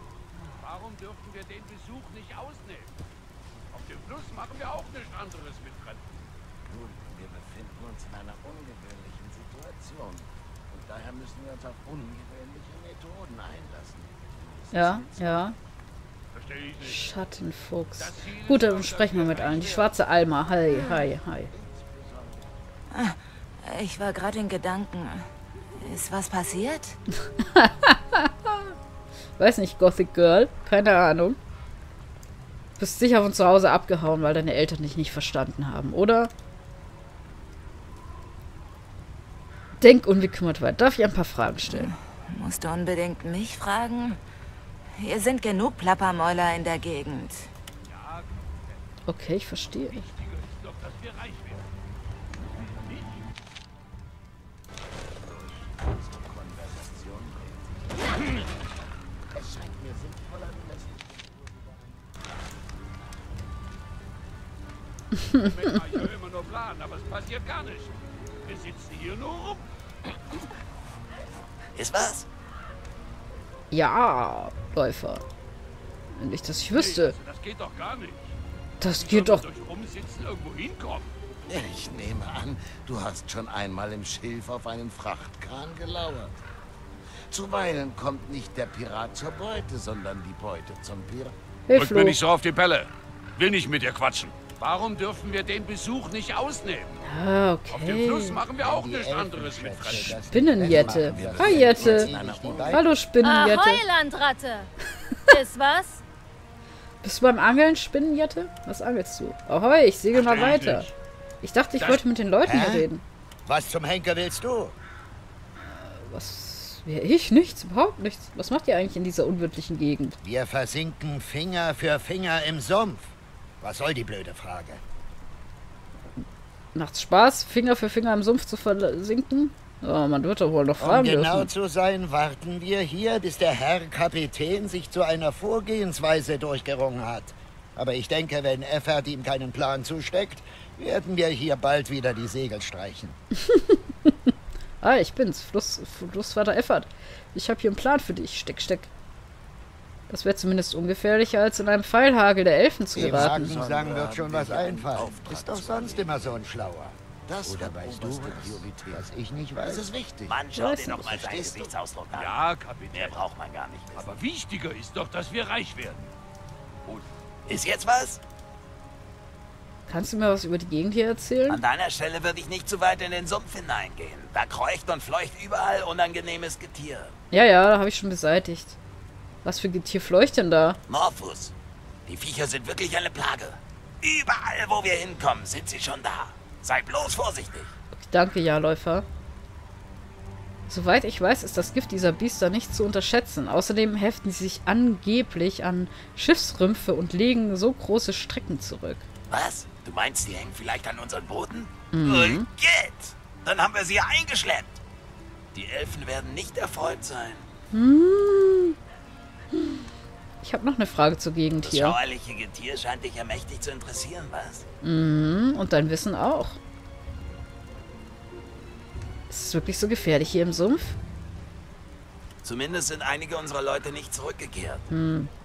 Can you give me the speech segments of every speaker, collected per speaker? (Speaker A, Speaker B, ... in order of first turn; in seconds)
Speaker A: 0.5-3.0, 3.7-6.1, 16.4-17.0, 18.0-20.0, 47.8-48.3, 49.9-51.6, 65.3-69.7, 76.7-78.4, 78.9-81.1, 91.8-97.0, 97.7-100.3, 110.1-110.9, 162.1-163.2, 163.9-166.1
Speaker B: 6.7-15.4, 21.5-22.5, 55.3-58.4, 59.3-61.4, 81.5-86.4, 87.3-91.4, 100.7-102.9, 153.0-156.4, 157.3-159.1, 159.6-161.7
Speaker C: 14.7-15.6, 16.8-21.5, 27.4-28.7, 29.4-31.4, 32.8-36.3, 39.8-41.9, 49.1-50.0, 73.7-75.2, 76.1-77.2, 78.8-79.5, 91.7-92.2, 97.0-98.4, 100.3-103.8, 107.0-110.9, 111.4-113.0, 115.6-120.2, 126.8-131.5, 143.5-144.1, 144.8-148.9, 150.1-153.6, 160.6-160.9, 169.9-171.6, 177.3-178.8, 179.4-180.8, 187.9-189.1, 190.7-199.1, 201.9-202.5, 207.7-208.8, 210.4-212.0, 214.8-216.6, 219.3-221.0, 224.9-225.3
Speaker D: 22.9-25.3, 25.8-27.0, 41.9-44.2, 45.0-47.5
Speaker E: 71.8-72.3, 160.3-162.4, 162.9-164.1, 167.5-168.2, 171.5-177.1, 180.9-181.5, 182.1-187.7, 199.3-204.8, 205.5-207.5, 211.6-214.7, 222.4-224.9
Speaker F: 98.6-102.9, 112.4-112.9, 113.5-114.7, 120.2-124.8, 130.8-143.2, 152.9-159.9
Speaker G: 103.2-104.7, 105.3-106.0